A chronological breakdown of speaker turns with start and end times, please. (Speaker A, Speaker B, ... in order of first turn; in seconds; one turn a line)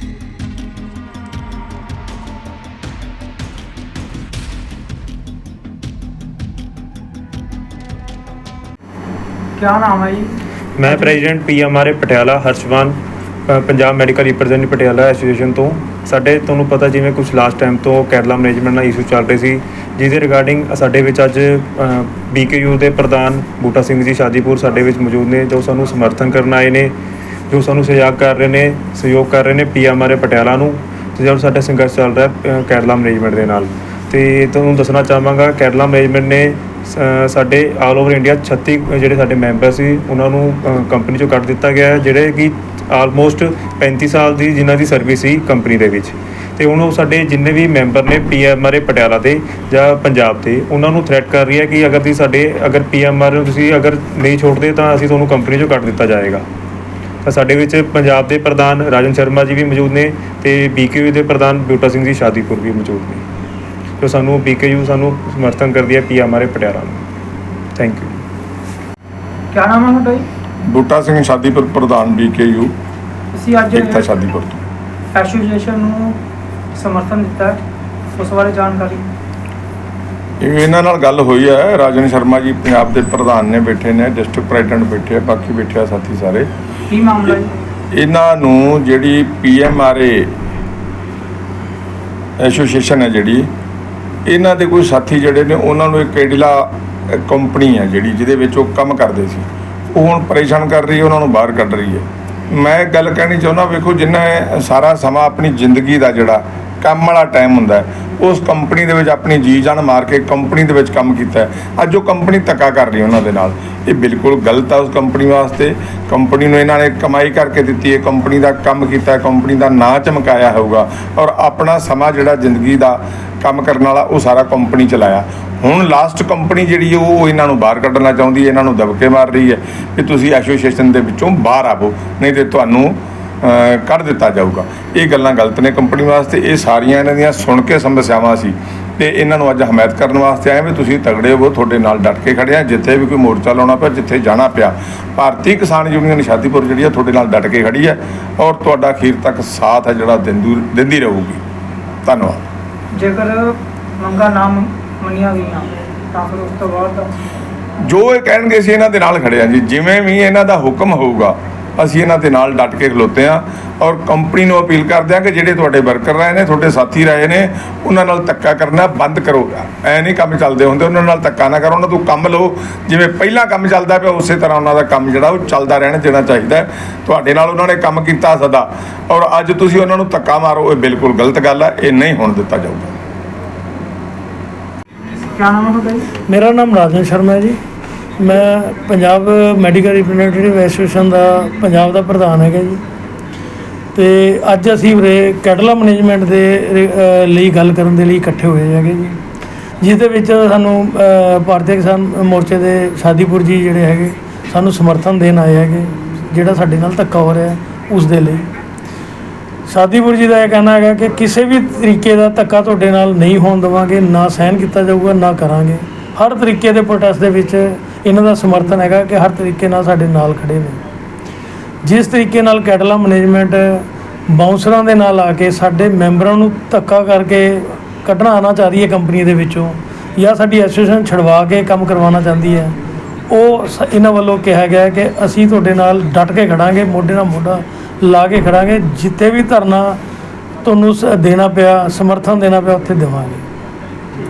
Speaker A: 9.6-10.3
Speaker B: 10.8-26.9
Speaker A: 10.8-11.2
Speaker B: 27.5-56.4
Speaker B: 57.2-63.2
Speaker B: 64.0-67.0
Speaker B: 67.8-68.2
Speaker A: 69.5-70.3
Speaker C: 70.7-72.7
Speaker A: 73.3-74.1
Speaker C: 73.7-74.6
Speaker A: 75.1-76.1
Speaker A: 76.7-77.6
Speaker A: 78.2-79.0
Speaker C: 80.4-86.5
Speaker A: 86.9-87.5
Speaker C: 87.9-90.3
Speaker C: 92.4-93.5
Speaker C: 94.2-151.4
Speaker C: 152.0-152.4
Speaker A: 152.9-157.1
Speaker C: 157.8-182.8
Speaker A: 185.3-186.1
Speaker D: 186.3-187.6
Speaker D: 188.2-192.8
Speaker D: 193.9-199.2
Speaker D: 199.8-208.4
Speaker D: 209.7-220.8
Speaker D: 221.8-232.7
Speaker D: 233.3-240.0
Speaker D: 240.6-243.4